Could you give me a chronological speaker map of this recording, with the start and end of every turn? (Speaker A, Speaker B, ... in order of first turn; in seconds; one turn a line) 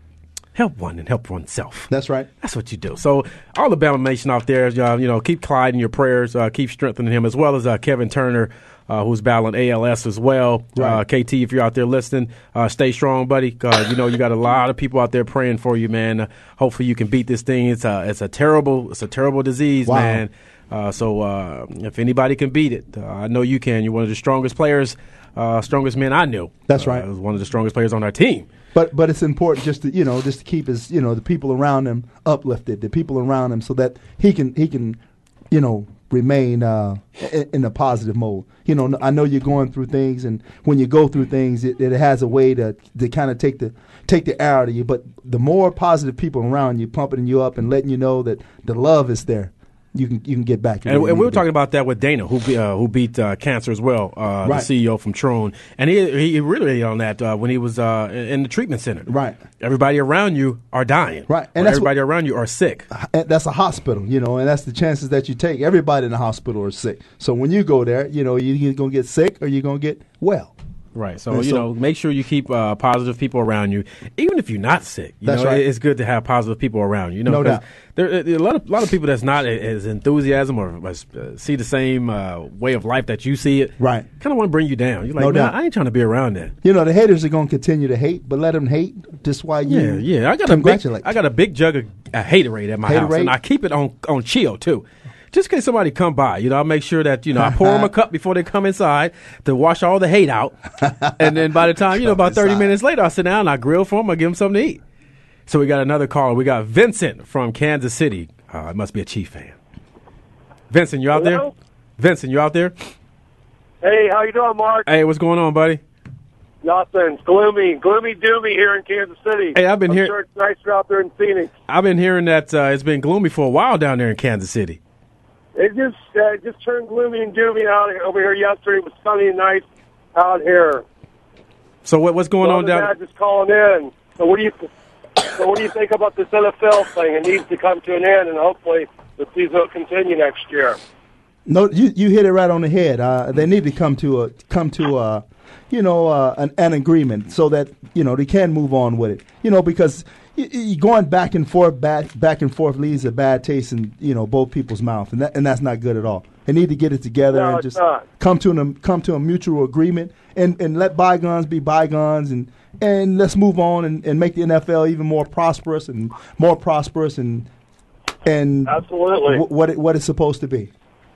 Speaker A: 0.6-1.9
Speaker B: 1.9-2.3
Speaker A: 2.4-28.5
Speaker B: 10.8-11.0
Speaker B: 19.8-20.2
Speaker B: 26.7-27.1
Speaker B: 28.7-35.0
Speaker B: 35.5-51.4
Speaker A: 50.9-62.9
Speaker B: 59.1-59.4
Speaker B: 61.3-61.9
Speaker B: 62.9-70.5
Speaker A: 70.9-86.5
Speaker B: 71.3-71.7
Speaker B: 75.2-75.6
Speaker B: 77.2-77.6
Speaker B: 83.8-84.1
Speaker B: 85.2-85.5
Speaker B: 86.6-91.1
Speaker A: 89.7-104.8
Speaker B: 92.8-93.3
Speaker B: 97.4-97.9
Speaker B: 102.0-102.7
Speaker A: 105.5-109.5
Speaker A: 110.7-112.7
Speaker C: 111.1-111.5
Speaker C: 113.8-114.9
Speaker A: 114.9-115.8
Speaker C: 116.6-121.5
Speaker A: 119.5-120.1
Speaker A: 121.7-124.8
Speaker C: 125.5-130.8
Speaker A: 131.8-132.9
Speaker C: 132.4-134.7
Speaker C: 135.3-140.8
Speaker B: 141.4-167.5
Speaker C: 157.3-158.0
Speaker B: 168.2-170.7
Speaker C: 168.7-169.4